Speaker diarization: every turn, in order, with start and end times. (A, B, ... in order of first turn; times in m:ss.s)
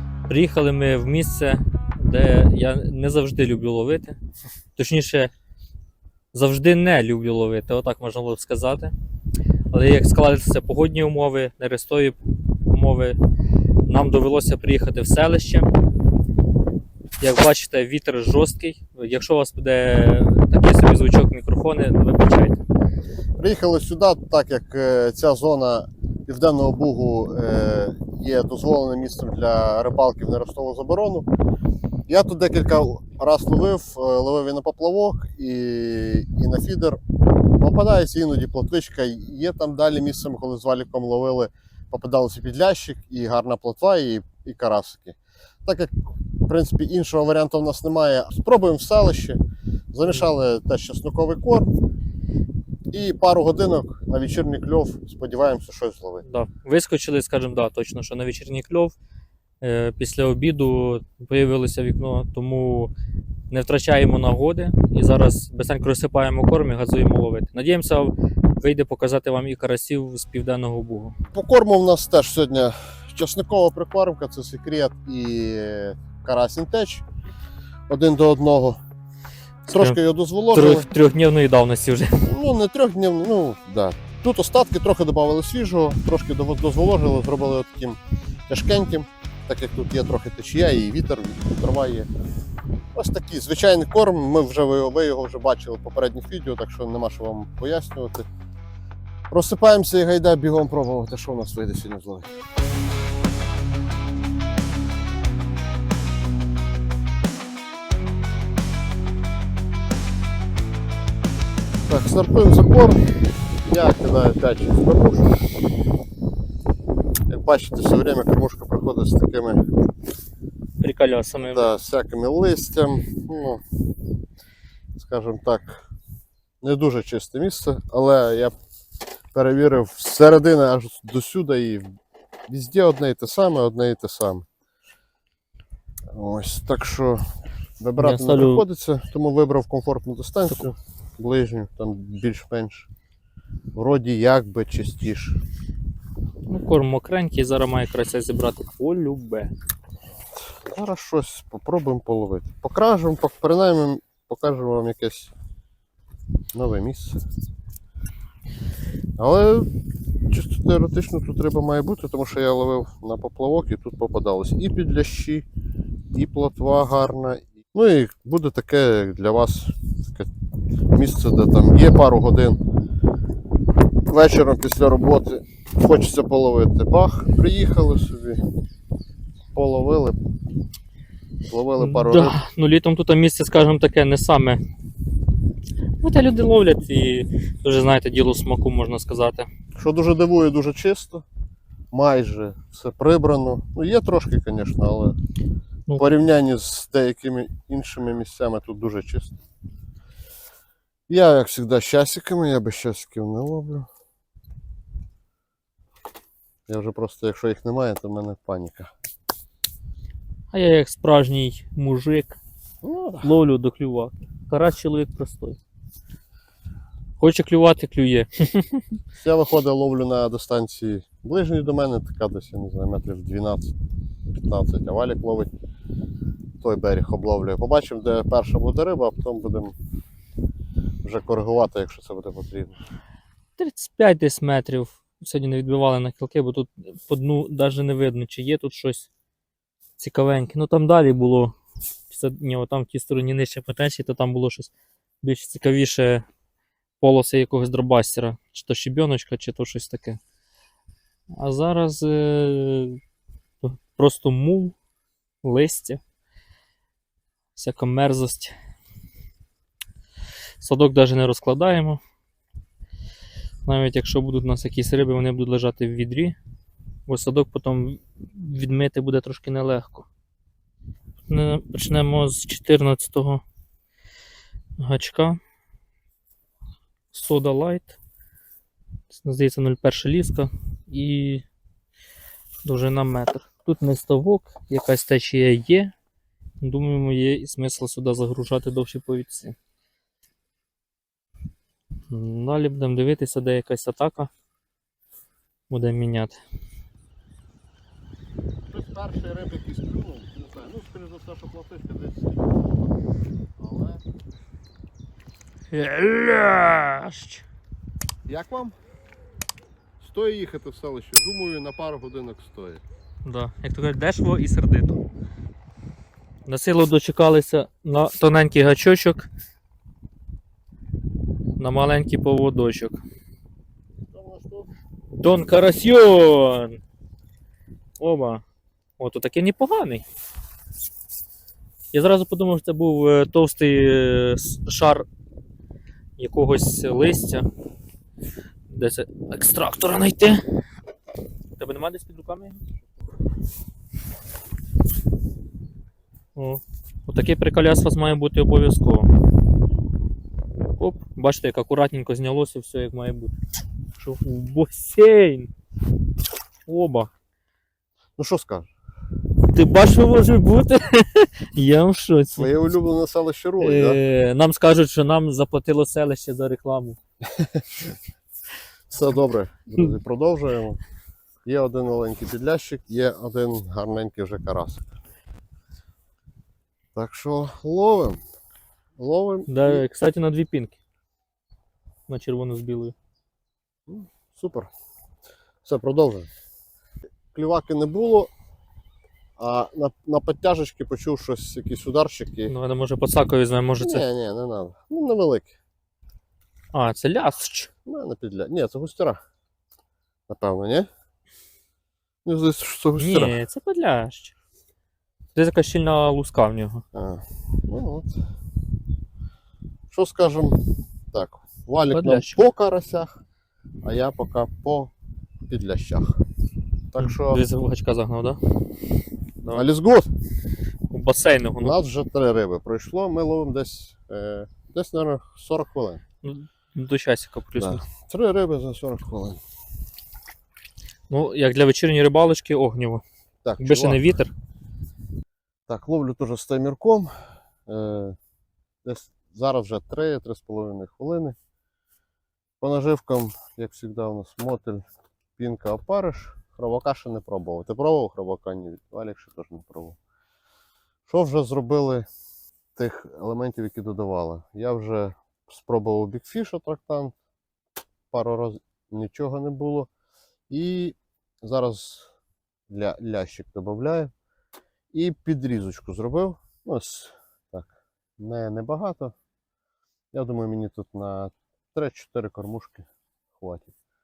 0:00.3-0:04.2 A
0:04.8-0:05.3 A
0:06.3-0:08.9 A
0:09.7-0:13.2 A
0:13.8-0:15.7 A
0:17.2-0:22.6 A
0:23.4-0:31.3 B
0:32.1-0:37.0 B
0:37.6-0:49.4 B
0:49.9-0:51.8 B
0:52.9-0:56.2 B
0:56.2-0:58.9 A
0:59.6-1:02.9 A
1:03.5-1:11.2 A
1:11.3-1:17.0 B
1:17.9-1:18.8 B
1:19.7-1:20.9 B
1:19.7-1:20.0 A
1:20.5-1:22.3 A
1:22.2-1:32.1 B
1:32.9-1:38.3 B
1:39.3-1:42.3 B
1:51.9-1:53.0 B
1:53.6-1:55.4 B
1:57.3-1:59.6 B
2:00.8-2:01.7 A
2:01.5-2:03.6 B
2:04.9-2:05.8 B
2:06.6-2:08.5 B
2:09.3-2:11.8 B
2:12.5-2:14.5 B
2:16.1-2:17.3 B
2:17.8-2:22.9 B
2:18.0-2:18.6 A
2:23.7-2:25.4 B
2:26.5-2:29.5 A
2:30.4-2:35.3 B
2:36.5-2:37.2 B
2:39.2-2:39.7 B
2:40.3-2:45.4 B
2:46.1-2:50.3 B
2:50.9-2:52.6 B
2:54.0-2:58.4 B
2:59.5-3:00.2 B
3:01.5-3:02.4 B
3:01.8-3:04.6 A
3:06.0-3:09.5 A
3:09.8-3:11.2 B
3:11.9-3:15.2 B
3:16.0-3:19.4 B
3:21.1-3:23.9 B
3:26.7-3:28.9 B
3:30.5-3:32.4 A
3:32.8-3:33.3 B
3:33.2-3:35.6 A
3:37.2-3:39.0 A
3:39.2-3:43.8 B
3:44.3-3:45.5 B
3:46.6-3:49.7 B
3:51.0-3:52.8 B
3:53.6-3:59.1 A
4:00.0-4:01.6 A
4:02.1-4:04.7 A
4:05.2-4:06.2 A
4:07.0-4:10.2 A
4:11.4-4:13.0 A
4:13.6-4:14.8 A
4:15.4-4:16.0 A
4:17.6-4:18.5 A
4:20.6-4:22.0 A
4:23.6-4:26.4 A
4:27.1-4:30.1 A
4:31.3-4:33.4 A
4:34.8-4:35.4 A
4:37.1-4:38.0 A
4:39.1-4:41.4 A
4:42.6-4:45.9 A
4:46.6-4:49.6 A
4:52.1-4:54.3 A
4:55.7-4:56.4 A
4:58.7-5:02.6 B
5:03.6-5:04.0 B
5:05.7-5:07.4 A
5:08.3-5:08.8 B
5:10.0-5:12.8 B
5:13.2-5:15.0 A
5:16.5-5:19.3 A
5:21.6-5:23.0 A
5:24.1-5:24.7 B
5:25.2-5:26.8 A
5:28.0-5:28.4 A
5:29.0-5:30.0 A
5:31.9-5:35.0 A
5:36.2-5:37.4 A
5:38.7-5:40.4 A
5:41.6-5:42.6 A
5:46.4-5:49.1 A
5:50.8-5:53.3 A
5:54.0-5:55.5 A
5:56.6-5:57.1 A
5:58.2-5:58.7 B
5:59.5-6:02.5 A
6:02.3-6:04.0 B
6:03.6-6:07.0 A
6:07.3-6:07.9 B
6:08.9-6:10.8 B
6:11.4-6:14.9 B
6:16.9-6:18.2 B
6:19.0-6:19.8 B
6:19.5-6:20.8 A
6:22.1-6:22.9 A
6:23.9-6:24.7 B
6:25.6-6:26.3 B
6:27.3-6:28.3 B
6:29.4-6:32.5 B
6:32.5-6:34.0 A
6:33.8-6:35.5 B
6:36.7-6:37.7 A
6:37.8-6:39.2 B
6:40.3-6:40.9 B
6:42.2-6:43.4 B
6:43.0-6:44.3 A
6:45.3-6:46.8 A
6:46.9-6:48.2 B
6:49.9-6:53.2 B
6:51.9-6:52.4 A
6:53.8-6:54.9 B
6:55.5-6:56.2 B
6:56.9-6:57.4 B
6:57.0-6:58.4 A
6:59.5-7:00.1 B
7:00.9-7:01.8 A
7:01.6-7:06.0 B
7:06.2-7:07.8 A
7:07.6-7:09.4 B
7:11.1-7:13.0 A
7:13.4-7:14.0 B
7:13.6-7:14.3 A
7:15.7-7:18.2 B
7:18.8-7:21.4 B
7:22.6-7:24.8 B
7:25.4-7:30.0 B
7:31.0-7:32.0 B
7:32.8-7:37.1 B
7:38.1-7:39.9 B
7:40.5-7:42.1 B
7:42.7-7:44.1 B
7:44.9-7:49.1 B
7:50.1-7:53.7 B